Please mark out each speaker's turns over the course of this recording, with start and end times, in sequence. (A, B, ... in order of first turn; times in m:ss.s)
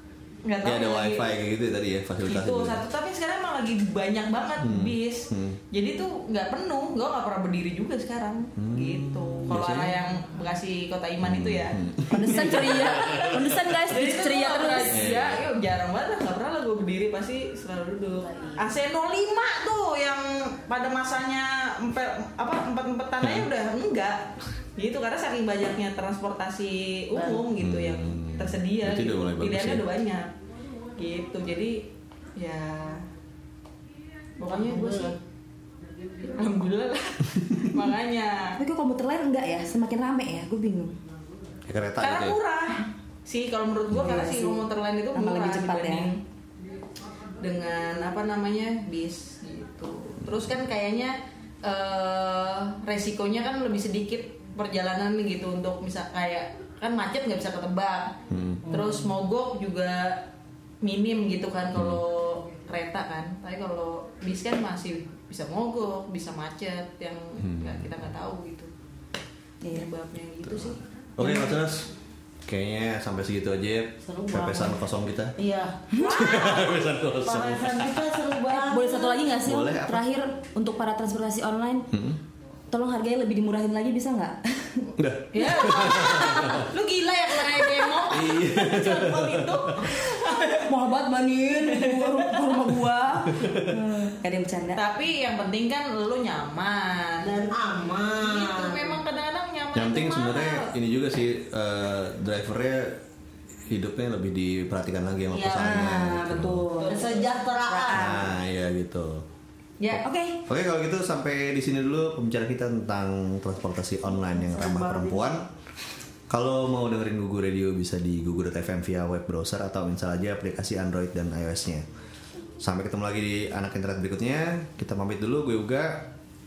0:00.4-0:01.3 A
0:00.6-0:02.8 B
0:02.3-0:11.8 A
0:04.6-0:05.6 B
0:08.6-0:10.0 B
0:11.2-0:12.9 B
0:12.1-0:15.0 C
0:12.4-0:30.3 A
0:14.9-0:15.4 B
0:18.3-0:18.6 D
0:23.2-0:23.5 B
0:27.1-0:27.4 D
0:27.6-0:29.8 B
0:31.0-0:33.0 A
0:34.4-0:35.2 A
0:34.4-0:35.2 D
0:36.2-0:38.6 A
0:38.6-0:41.0 C
0:41.6-0:42.4 B
0:42.0-0:46.1 A
0:43.9-0:46.2 C
0:47.4-1:00.3 A
0:58.3-0:58.7 B
1:00.8-1:08.7 A
1:01.7-1:02.0 B
1:07.4-1:08.0 B
1:09.7-1:10.8 A
1:10.6-1:11.9 B
1:11.2-1:11.5 C
1:12.4-1:15.4 B
1:14.0-1:14.8 D
1:15.4-1:16.6 D
1:16.0-1:17.8 A
1:16.0-1:18.0 B
1:17.3-1:19.4 D
1:18.5-1:21.9 C
1:19.4-1:20.0 B
1:21.9-1:22.2 B
1:22.7-1:24.9 C
1:25.0-1:26.6 B
1:25.3-1:30.7 A
1:26.1-1:26.6 C
1:28.1-1:30.0 B
1:30.6-1:34.8 C
1:31.6-1:32.6 A
1:33.4-1:33.8 B
1:34.8-1:37.3 A
1:37.2-1:39.0 D
1:38.2-1:40.7 A
1:39.7-1:43.0 B
1:43.7-1:46.7 B
1:45.3-1:47.1 C
1:46.8-1:47.3 A
1:46.8-1:48.3 D
1:47.7-1:48.2 C
1:47.9-1:49.2 B
1:49.9-1:50.4 C
1:49.9-1:55.5 B
1:56.3-2:01.8 B
2:02.6-2:06.1 B